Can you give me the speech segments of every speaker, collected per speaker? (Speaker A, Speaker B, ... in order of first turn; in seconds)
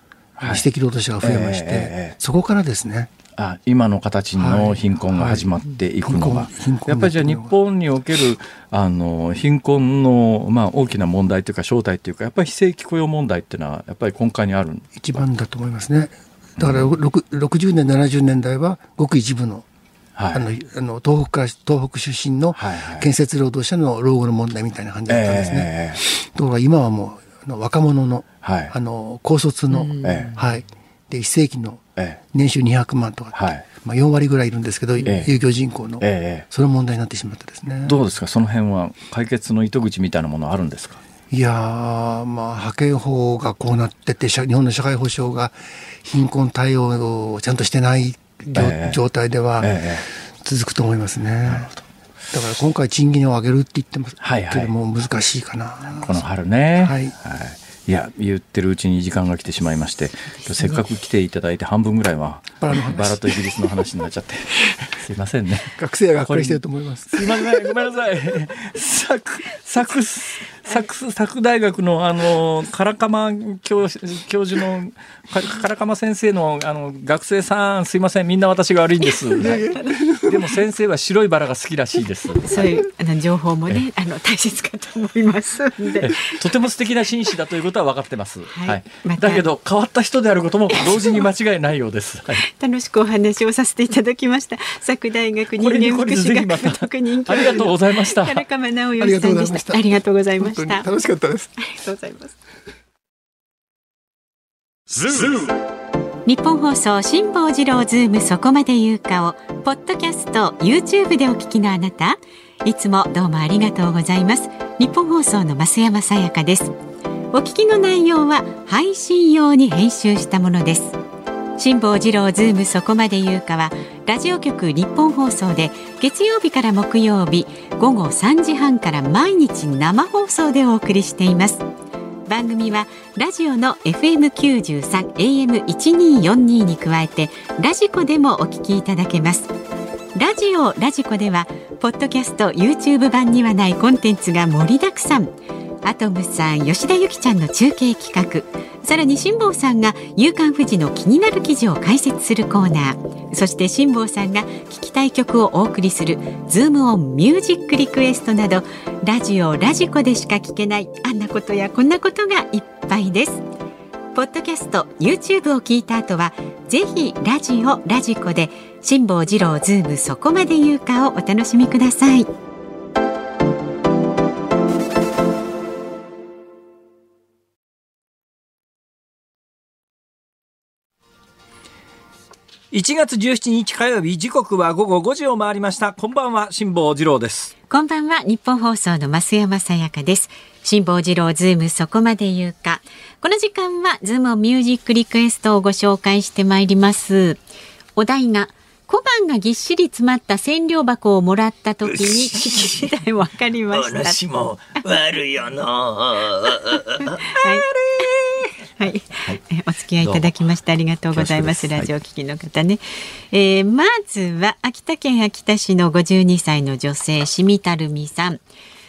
Speaker A: 0.4-0.7, 1.2-2.1, 3.4-14.9, 16.6-16.9, 20.1-20.5, 22.5-23.1, 25.1-26.0, 28.4-28.7, 30.0-30.4, 33.3-33.6, 35.0-35.3, 36.0-36.5, 37.8-41.0, 48.5-49.0, 49.6-50.0, 51.4-51.8, 54.2-54.7, 55.9-66.6, 67.1-82.8, 86.0-92.5, 95.6-98.4, 105.0-105.4, 182.7-187.5, 201.8-202.9, 203.7-208.7, 210.0-210.3, 211.1-211.9
Speaker B: 0.4-3.1, 4.4-5.4, 6.0-7.5, 15.0-19.6, 20.3-38.0, 41.3-49.8, 50.4-51.7, 52.3-56.2, 56.8-57.1, 62.6-63.9, 65.8-67.7, 79.4-80.5, 99.0-99.8, 100.4-101.6
Speaker C: 29.7-30.4, 79.5-79.9, 82.4-86.4, 88.5-89.4, 90.7-91.1, 92.3-100.9, 101.6-102.3, 106.2-116.7, 117.3-121.0, 121.6-131.6, 132.3-139.5, 140.1-145.3, 145.8-163.4, 164.1-172.3, 187.7-197.4, 197.9-204.2, 207.2-207.7, 208.8-218.4